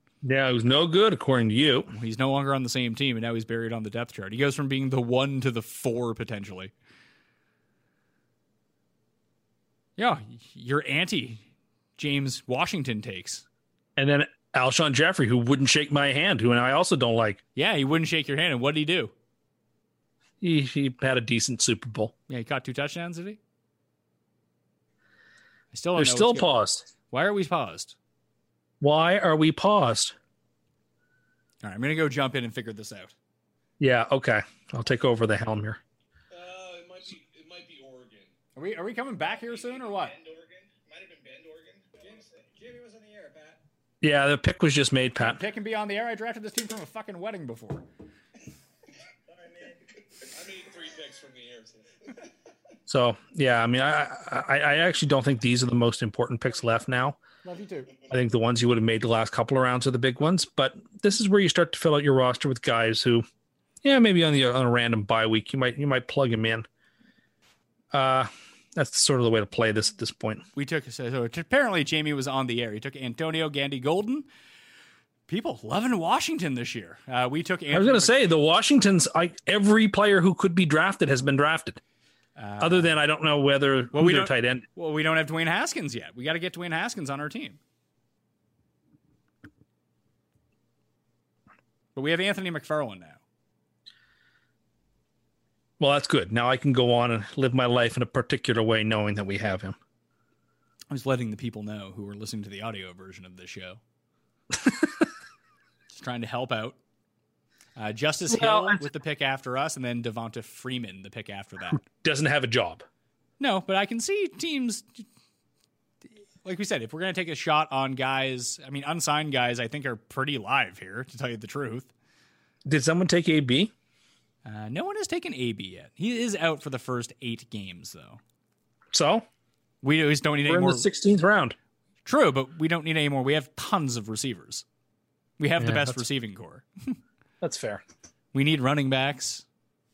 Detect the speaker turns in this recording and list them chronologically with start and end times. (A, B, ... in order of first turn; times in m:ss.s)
0:00.2-0:01.9 A
0:01.9-0:06.7 B
0:10.0-0:11.4 B
0:12.0-0:13.4 B
0:14.0-0:17.4 A
0:17.6-0:19.1 B
0:20.4-0:22.1 A
0:22.3-0:23.4 B
0:25.7-0:26.5 B
0:26.0-0:26.8 A
0:27.1-0:28.0 B
0:28.8-0:30.1 A
0:31.6-0:33.1 B
0:33.8-0:35.8 A
0:36.3-0:38.4 C
0:38.6-0:40.2 B
0:39.2-0:43.6 C
0:44.0-0:45.4 A
0:45.2-0:47.8 B
0:49.3-0:52.1 C
0:52.9-0:57.2 A
0:57.4-0:57.9 B
0:58.1-1:03.2 A
1:03.8-1:06.7 A
1:07.9-1:10.4 A
1:10.6-1:14.3 B
1:15.3-1:18.2 B
1:17.7-1:21.8 A
1:22.4-1:23.0 B
1:22.6-1:24.6 A
1:23.9-1:27.6 B
1:32.0-1:33.2 B
1:35.8-1:39.8 A
1:40.9-1:43.8 B
1:45.9-1:46.8 B
1:47.8-1:51.8 B
1:48.3-1:48.8 A
1:51.8-1:52.8 A
1:53.4-1:55.0 B
1:56.4-2:01.9 B
2:02.7-2:03.7 A
2:04.4-2:08.2 B
2:08.9-2:09.2 A
2:09.8-2:10.9 B
2:10.5-2:11.6 A
2:12.0-2:14.6 B
2:15.4-2:17.0 B
2:15.6-2:16.0 A
2:17.4-2:17.8 A
2:18.3-2:19.4 B